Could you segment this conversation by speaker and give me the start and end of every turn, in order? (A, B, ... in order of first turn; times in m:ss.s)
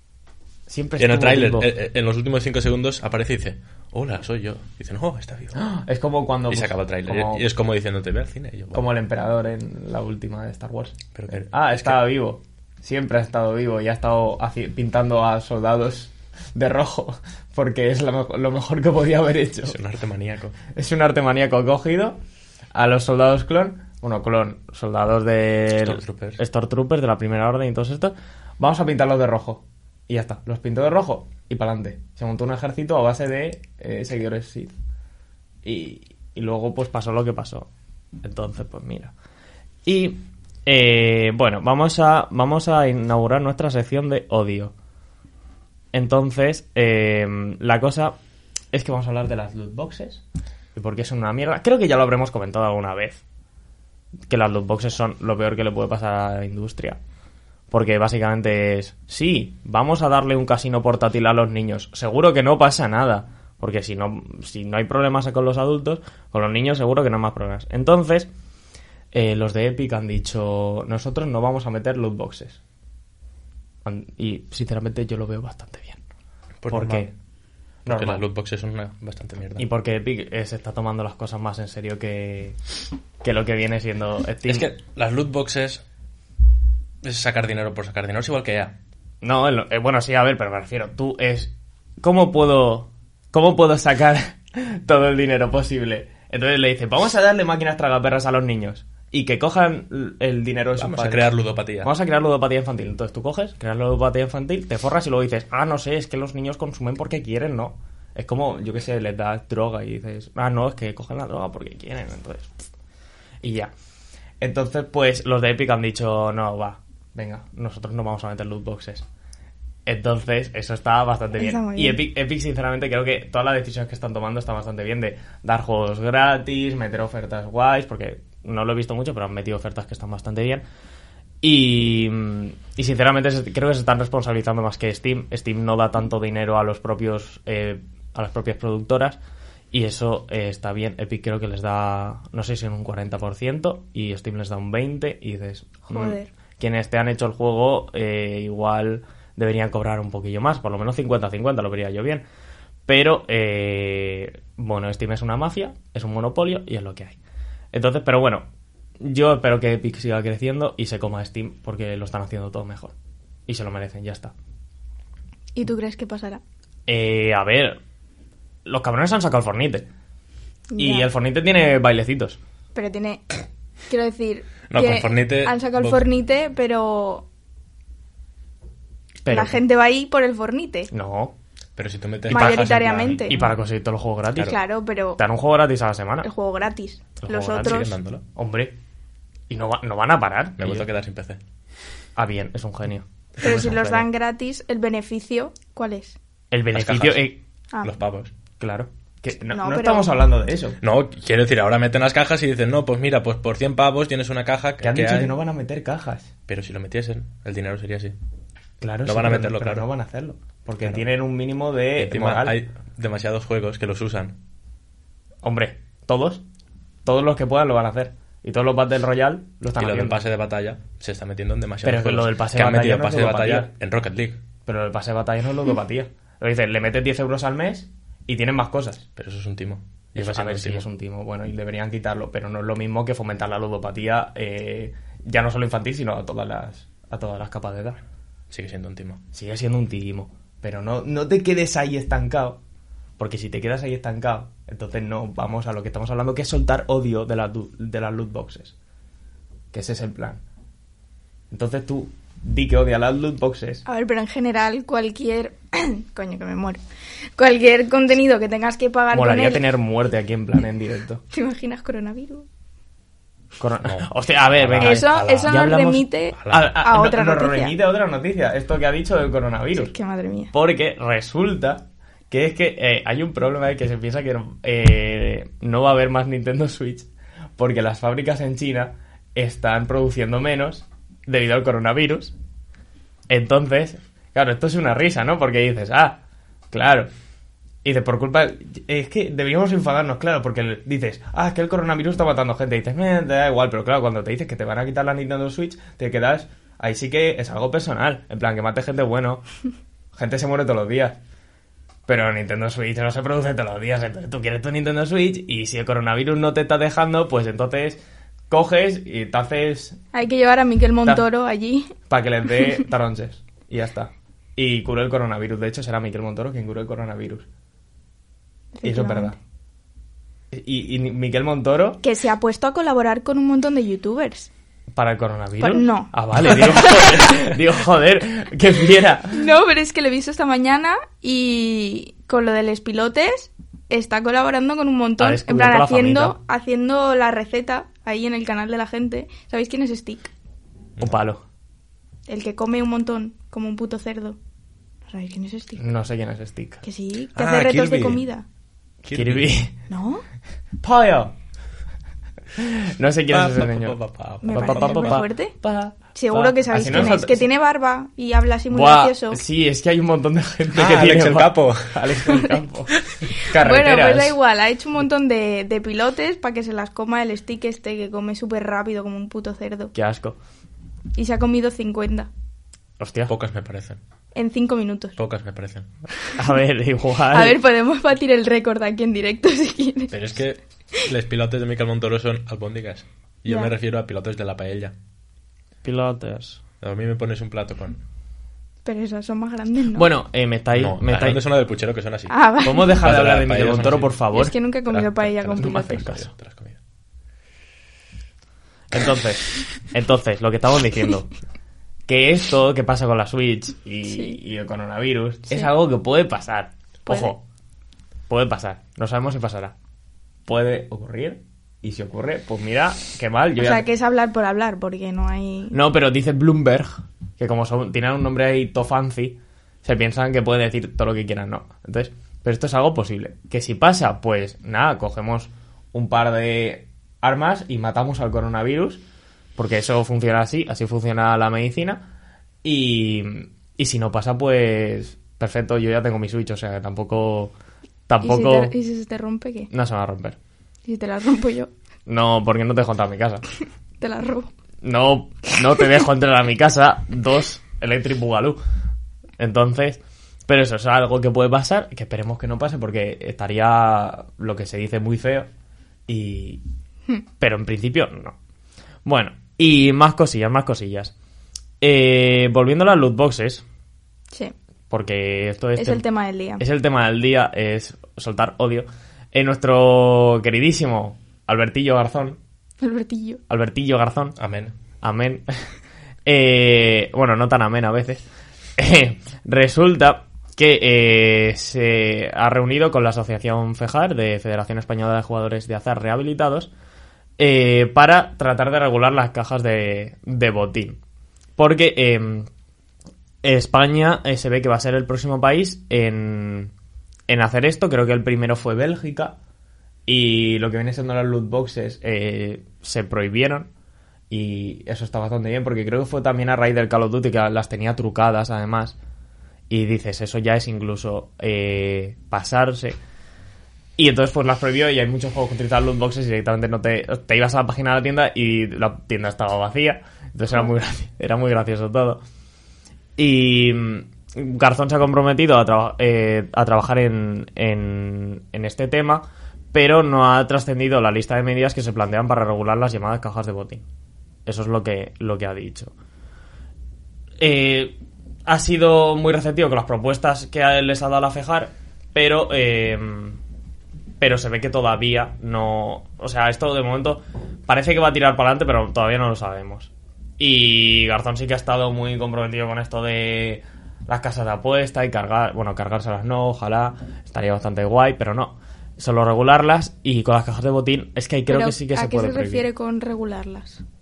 0:00.7-0:01.7 A
0:01.0-0:05.6 B
0:05.5-0:07.4 A
0:06.5-0:08.8 B
0:08.7-0:19.8 A
0:11.1-0:12.0 B
0:19.6-0:20.6 B
0:20.7-0:22.2 A
0:22.7-0:34.7 A
0:25.8-0:26.4 B
0:35.6-0:37.7 A
0:38.2-0:39.1 A
0:39.8-0:44.7 A
0:45.9-0:48.2 A
0:48.7-0:50.2 A
0:50.7-0:53.2 A
0:54.3-0:57.0 A
0:57.7-1:08.3 A
1:09.1-1:12.6 A
1:13.8-1:16.0 A
1:16.6-1:17.1 B
1:16.7-1:17.1 A
1:17.8-1:18.2 A
1:17.8-1:19.6 B
1:19.6-1:22.6 A
1:23.2-1:24.7 A
1:24.5-1:25.8 B
1:27.0-1:28.7 B
1:29.2-1:52.6 A
1:40.8-1:41.9 B
1:53.4-1:53.7 A
1:54.4-1:59.0 A
1:59.8-2:10.6 A
2:01.4-2:02.0 C
2:11.4-2:19.2 A
2:19.7-2:32.2 A
2:25.9-2:26.3 C
2:32.9-2:37.2 A
2:37.7-2:38.4 A
2:39.0-2:42.9 A
2:43.5-2:44.3 A
2:45.5-2:46.4 C
2:46.9-2:47.8 A
2:48.6-2:49.9 A
2:50.7-2:51.1 C
2:50.8-2:52.4 A
2:52.7-2:53.3 C
2:53.9-2:57.2 C
2:54.7-2:56.0 B
2:59.2-2:59.6 A
2:59.3-3:00.9 C
3:00.9-3:01.3 A
3:01.8-3:03.5 B
3:02.3-3:04.6 A
3:02.3-3:03.4 C
3:04.4-3:05.2 C
3:05.2-3:06.3 A
3:06.2-3:07.9 C
3:07.2-3:08.7 A
3:07.6-3:08.2 B
3:09.5-3:10.9 A
3:10.6-3:11.4 B
3:12.2-3:14.1 A
3:13.4-3:16.2 C
3:16.5-3:17.4 A
3:16.7-3:18.3 B
3:18.6-3:20.8 A
3:19.5-3:20.1 C
3:20.8-3:25.3 B
3:24.8-3:26.3 A
3:26.5-3:28.1 B
3:28.8-3:32.6 A
3:29.0-3:29.8 B
3:32.0-3:34.4 B
3:35.4-3:36.4 A
3:37.0-3:40.2 A
3:39.8-3:44.4 B
3:41.8-3:43.7 A
3:44.6-3:49.0 A
3:49.2-3:50.8 B
3:50.2-3:58.0 A
3:58.5-3:59.2 B
3:59.3-4:02.6 A
4:03.2-4:08.7 A
4:09.7-4:10.4 A
4:11.5-4:13.8 A
4:13.8-4:16.8 C
4:17.4-4:19.6 C
4:19.1-4:21.2 A
4:21.3-4:22.5 C
4:23.6-4:29.9 A
4:23.8-4:25.7 B
4:24.8-4:27.7 C
4:26.3-4:26.6 B
4:29.8-4:30.5 C
4:30.5-4:42.3 A
4:43.3-4:46.2 A
4:46.7-4:47.1 A
4:47.8-4:59.4 A
5:00.1-5:01.2 A
5:02.1-5:10.0 A
5:10.1-5:11.9 C
5:12.1-5:17.4 A
5:18.7-5:19.4 C
5:18.8-5:19.4 A
5:20.5-5:22.0 A
5:22.0-5:24.5 C
5:24.9-5:29.5 A
5:25.6-5:27.1 C
5:29.3-5:40.3 C
5:35.2-5:36.4 A
5:41.0-5:41.4 A
5:42.3-5:44.4 C
5:45.1-5:45.8 C
5:45.8-5:46.8 A
5:46.8-5:48.4 C
5:47.3-5:48.2 B
5:49.0-5:49.5 B
5:49.1-5:49.7 A
5:49.9-5:50.2 C
5:50.8-5:51.3 A
5:52.6-5:57.5 A
5:53.3-5:55.2 B
5:54.4-5:55.5 C
5:56.1-5:59.4 C
5:58.7-6:04.4 A
6:00.7-6:02.4 B
6:03.0-6:03.3 B
6:03.5-6:09.9 C
6:09.9-6:10.4 A
6:11.1-6:12.3 C
6:13.0-6:13.3 A
6:13.3-6:14.0 B
6:14.3-6:15.1 C
6:15.2-6:15.9 B
6:16.4-6:17.6 A
6:17.3-6:20.1 C
6:20.1-6:24.9 B
6:23.5-6:23.7 C
6:25.8-6:26.6 A
6:26.8-6:28.0 B
6:28.8-6:30.1 C
6:29.9-6:31.4 A
6:30.7-6:32.4 B
6:32.3-6:33.0 C
6:32.6-6:34.5 A
6:33.0-6:34.2 B
6:34.3-6:36.1 C
6:34.9-6:36.8 B
6:35.6-6:36.3 A
6:38.9-6:41.3 A
6:42.1-6:47.4 A
6:44.1-6:44.4 C
6:47.1-6:47.3 C
6:48.3-6:49.7 A
6:50.4-6:53.9 A
6:53.6-6:55.8 C
6:55.7-7:09.0 A
7:09.6-7:12.1 A
7:12.6-7:17.5 A
7:18.1-7:18.7 A
7:18.2-7:19.7 C
7:19.7-7:20.4 A
7:20.8-7:21.7 C
7:22.1-7:23.4 A
7:24.0-7:24.5 C
7:24.8-7:28.6 A
7:29.4-7:35.5 A
7:36.1-7:36.6 A
7:37.4-7:38.4 A
7:39.0-7:41.1 A
7:41.8-7:43.6 A
7:44.9-7:46.0 A
7:45.8-7:46.6 C
7:46.6-7:52.4 A
7:52.8-7:53.4 C
7:53.5-7:54.4 A
7:54.4-7:54.7 B
7:55.0-7:55.7 A
7:56.2-7:58.2 A
7:58.8-8:06.7 A
8:07.4-8:11.0 A
8:11.6-8:12.5 A
8:13.4-8:16.7 A
8:17.3-8:19.4 A
8:20.1-8:23.7 A
8:24.3-8:29.0 A
8:29.7-8:33.0 A
8:34.0-8:42.2 A
8:43.2-8:53.8 A
8:54.4-8:55.9 A
8:57.4-9:03.4 A
9:04.2-9:22.7 A
9:21.5-9:23.8 C